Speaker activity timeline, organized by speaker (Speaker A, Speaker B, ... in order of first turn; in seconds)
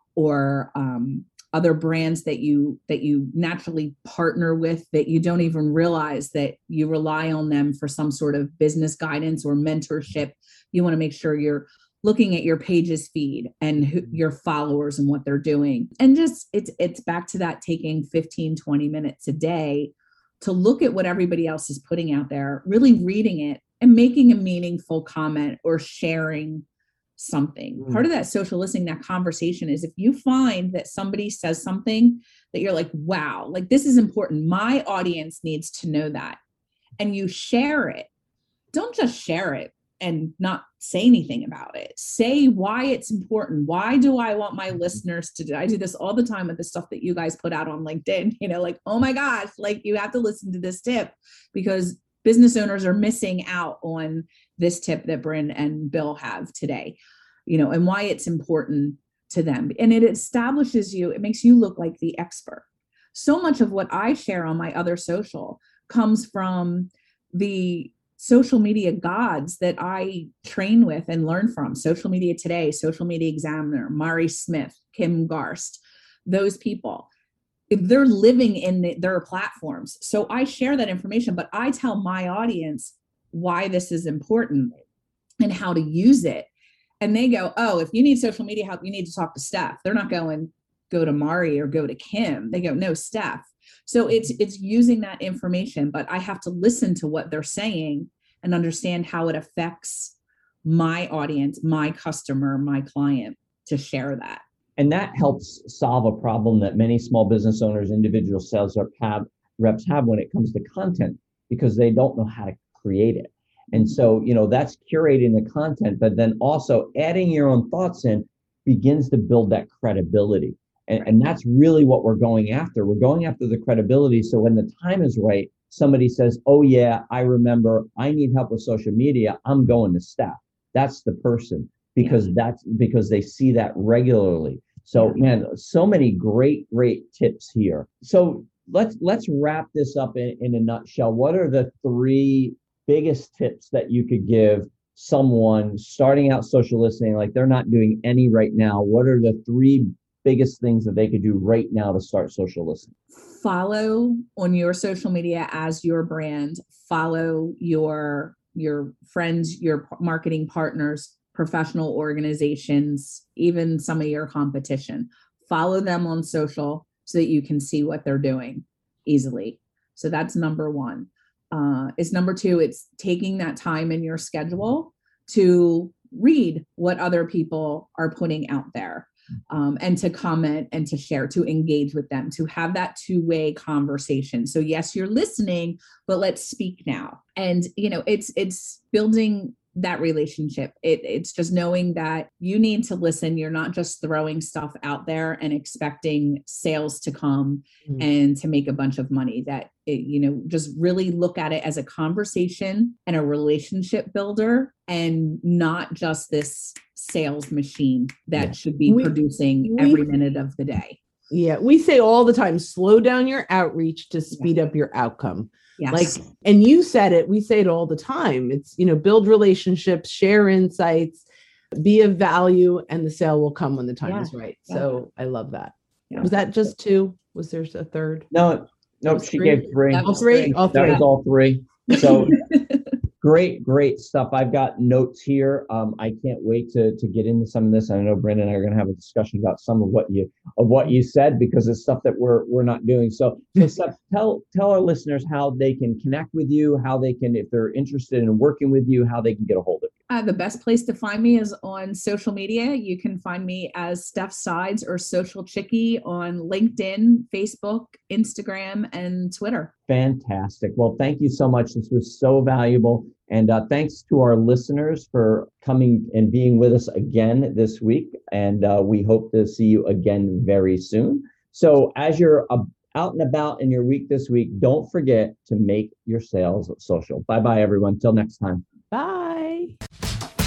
Speaker A: 0.1-26.6, 27.2-36.4, 37.0-38.1, 38.7-77.1, 77.7-84.8, 85.4-86.5, 87.0-104.4, 153.2-211.0, 215.8-216.2, 224.0-224.9, 229.9-231.0, 231.9-232.7, 250.1-259.7
Speaker B: 104.8-152.9, 228.3-232.5, 233.2-249.9, 259.9-278.6
Speaker C: 208.8-210.0, 211.3-228.3, 229.1-231.0, 278.9-279.7